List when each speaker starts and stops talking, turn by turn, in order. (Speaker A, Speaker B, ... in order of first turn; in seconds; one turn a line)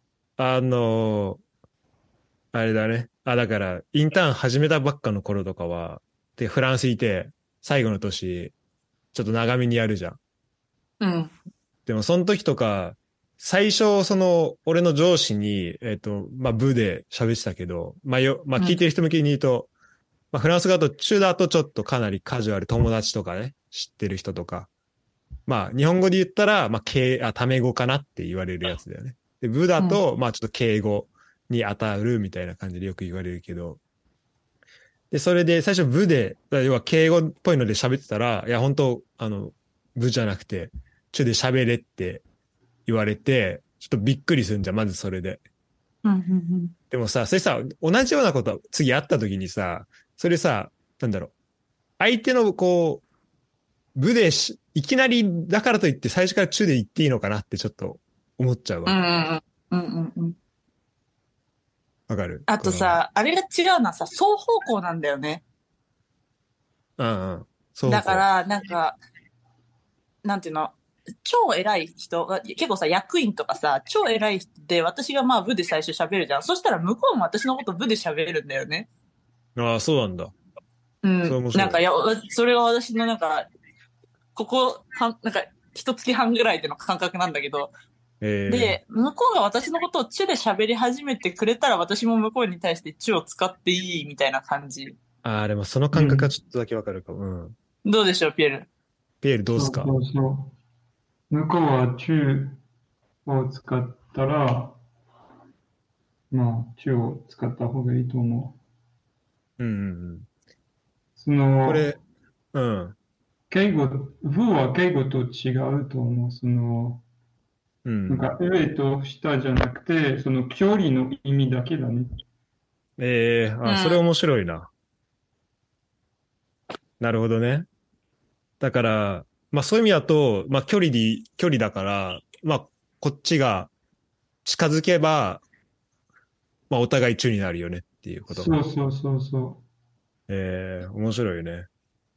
Speaker A: 0.4-1.4
Speaker A: 2.5-8.5
Speaker A: 9.1-10.2
Speaker B: 11.0-11.3
Speaker A: 11.9-19.7
Speaker A: 20.3-24.7
Speaker A: 25.5-33.8
Speaker A: 35.1-42.2
Speaker A: 42.9-45.4
Speaker B: 46.0-46.7
Speaker A: 46.9-51.3
Speaker A: 52.0-53.0
Speaker A: 54.0-59.0
Speaker B: 58.9-60.4
Speaker A: 62.1-63.0
Speaker B: 62.5-65.4
Speaker A: 67.0-68.2
Speaker B: 67.9-69.0
Speaker B: 70.2-78.9
Speaker A: 79.6-80.3
Speaker B: 81.0-83.5
Speaker A: 81.2-81.8
Speaker B: 84.3-87.7
Speaker A: 88.2-88.8
Speaker B: 88.5-95.0
Speaker A: 95.2-97.6
Speaker C: 95.9-96.3
Speaker B: 97.8-98.7
Speaker A: 99.2-99.9
Speaker C: 99.5-100.5
Speaker C: 101.3-102.6
Speaker C: 103.3-104.8
Speaker C: 106.3-108.6
Speaker A: 109.6-110.3
Speaker C: 111.2-111.9
Speaker A: 111.7-112.0
Speaker A: 112.5-113.0
Speaker C: 113.5-117.0
Speaker A: 117.8-118.3
Speaker C: 118.1-122.1
Speaker A: 123.0-124.7
Speaker B: 123.7-124.0
Speaker A: 127.0-127.7
Speaker A: 128.6-133.7
Speaker A: 134.4-135.4
Speaker A: 136.7-138.6
Speaker C: 138.3-139.6
Speaker A: 140.3-141.7